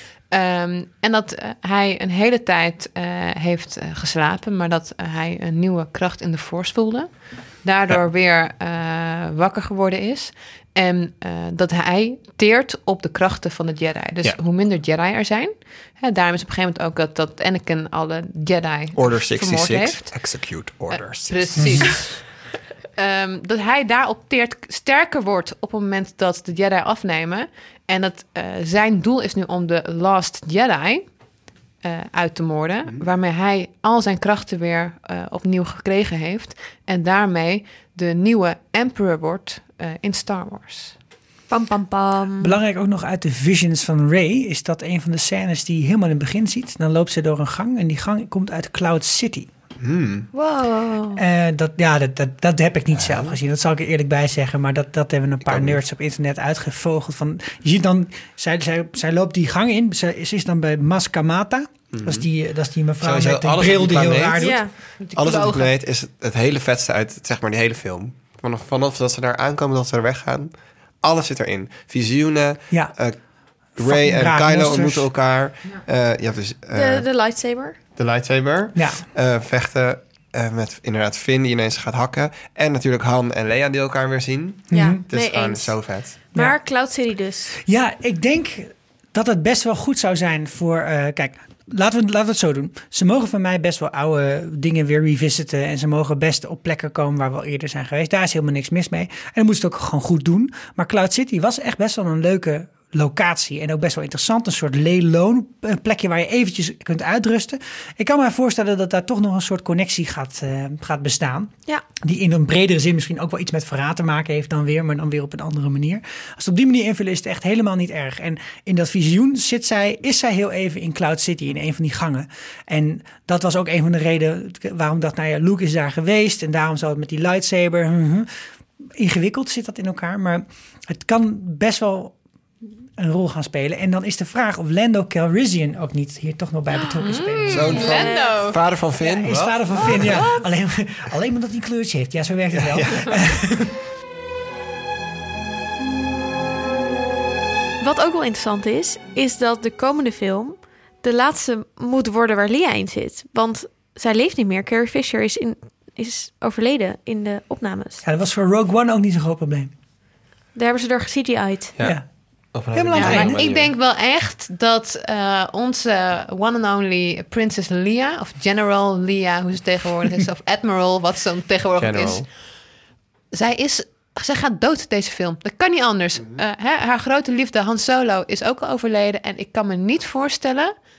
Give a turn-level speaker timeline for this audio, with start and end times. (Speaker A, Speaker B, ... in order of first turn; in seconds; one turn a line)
Speaker A: 0.3-20.1
Speaker B: 18.9-21.9
Speaker A: 20.9-22.3
Speaker C: 21.6-21.9
Speaker A: 23.0-31.1
Speaker A: 31.8-40.9
Speaker D: 41.5-42.5
Speaker C: 42.4-49.5
Speaker B: 49.8-50.3
Speaker D: 50.3-51.2
Speaker C: 51.1-64.6
Speaker B: 53.0-53.3
Speaker B: 55.5-55.8
Speaker B: 61.9-62.2
Speaker B: 63.0-64.5
Speaker D: 64.4-64.7
Speaker A: 65.0-65.7
Speaker B: 65.2-73.2
Speaker B: 73.8-77.0
Speaker C: 73.8-75.1
Speaker D: 76.7-77.8
Speaker B: 78.0-86.2
Speaker C: 78.7-79.0
Speaker C: 84.7-85.0
Speaker D: 84.7-87.6
Speaker C: 87.6-128.3
Speaker C: 129.0-132.2
Speaker C: 133.0-137.8
Speaker A: 137.0-138.6
Speaker B: 137.5-140.3
Speaker D: 137.7-138.4
Speaker C: 139.0-143.7
Speaker B: 142.5-143.2
Speaker D: 147.8-158.0
Speaker C: 158.0-159.7
Speaker D: 160.5-161.7
Speaker B: 161.8-162.0
Speaker B: 162.5-163.7
Speaker C: 162.7-163.4
Speaker A: 162.9-172.3
Speaker B: 171.8-172.3
Speaker A: 173.3-180.7